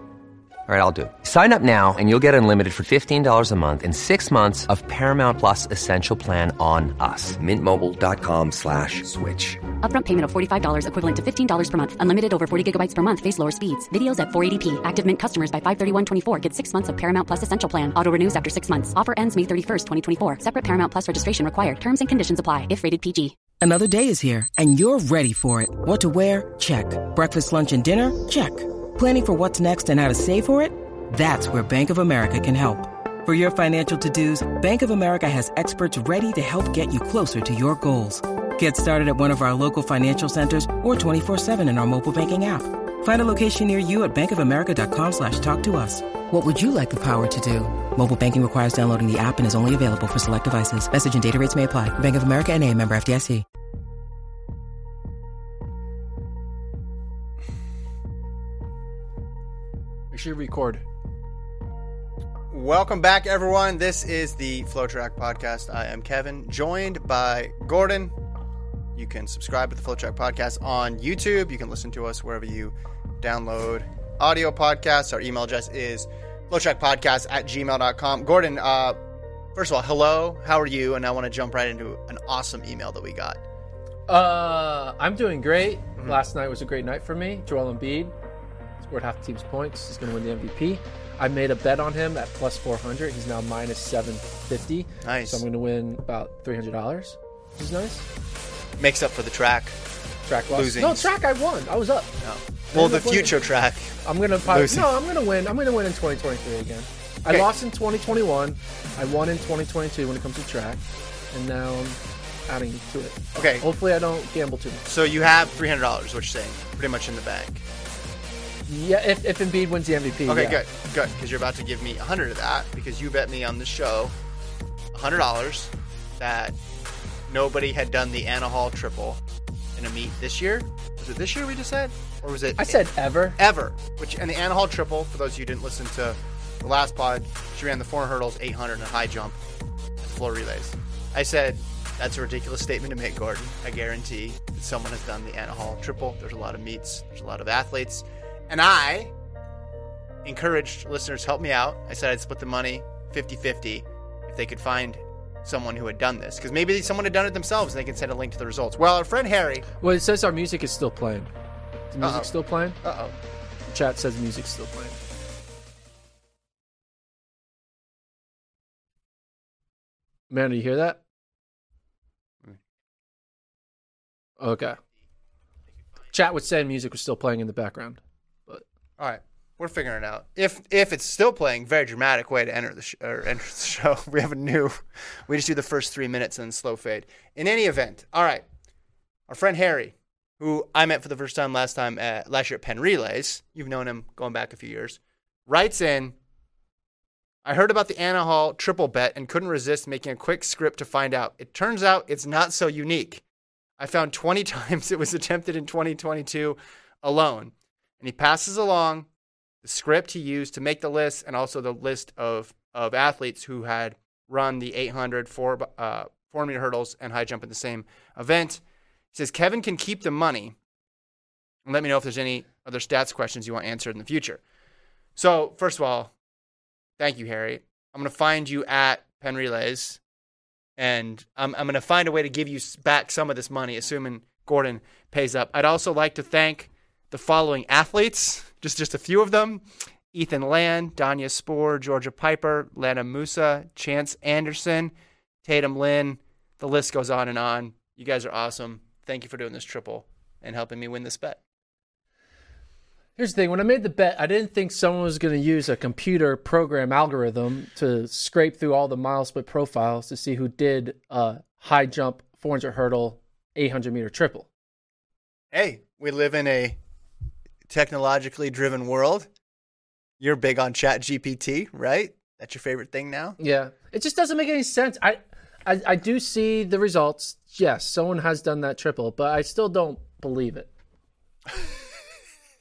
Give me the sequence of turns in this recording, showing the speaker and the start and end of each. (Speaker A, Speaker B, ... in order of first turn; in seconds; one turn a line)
Speaker A: 0.7-9.6
Speaker B: 9.8-23.4
Speaker C: 23.6-53.5
Speaker D: 60.1-60.8
Speaker E: 62.5-68.2
Speaker E: 69.0-79.0
Speaker E: 79.5-83.4
Speaker D: 84.1-88.1
Speaker D: 88.8-98.1
Speaker E: 95.0-95.4
Speaker E: 98.8-99.8
Speaker D: 100.3-102.2
Speaker E: 100.5-101.1
Speaker E: 102.2-104.0
Speaker D: 102.7-103.3
Speaker D: 104.0-114.8
Speaker E: 104.5-104.9
Speaker E: 113.3-113.7
Speaker E: 114.9-117.6
Speaker D: 118.7-120.6
Speaker E: 120.3-124.1
Speaker E: 124.9-126.6
Speaker E: 127.3-129.2
Speaker E: 129.8-139.4
Speaker D: 132.6-133.4
Speaker E: 140.0-149.1
Speaker E: 150.2-159.7
Speaker D: 159.8-161.3
Speaker D: 161.9-162.8
Speaker E: 162.0-163.2
Speaker D: 163.7-165.0
Speaker D: 170.3-171.0
Speaker D: 174.4-174.8
Speaker D: 176.1-178.7
Speaker E: 179.0-188.4
Speaker E: 189.3-196.2
Speaker E: 197.4-203.2
Speaker E: 203.8-209.1
Speaker E: 209.6-218.6
Speaker E: 219.1-220.6
Speaker E: 221.7-224.4
Speaker E: 225.2-226.1
Speaker E: 227.0-230.0
Speaker E: 230.8-244.9
Speaker E: 245.4-251.4
Speaker D: 253.2-264.5
Speaker E: 265.5-266.8
Speaker E: 267.7-269.3
Speaker E: 270.2-273.4
Speaker D: 273.4-280.7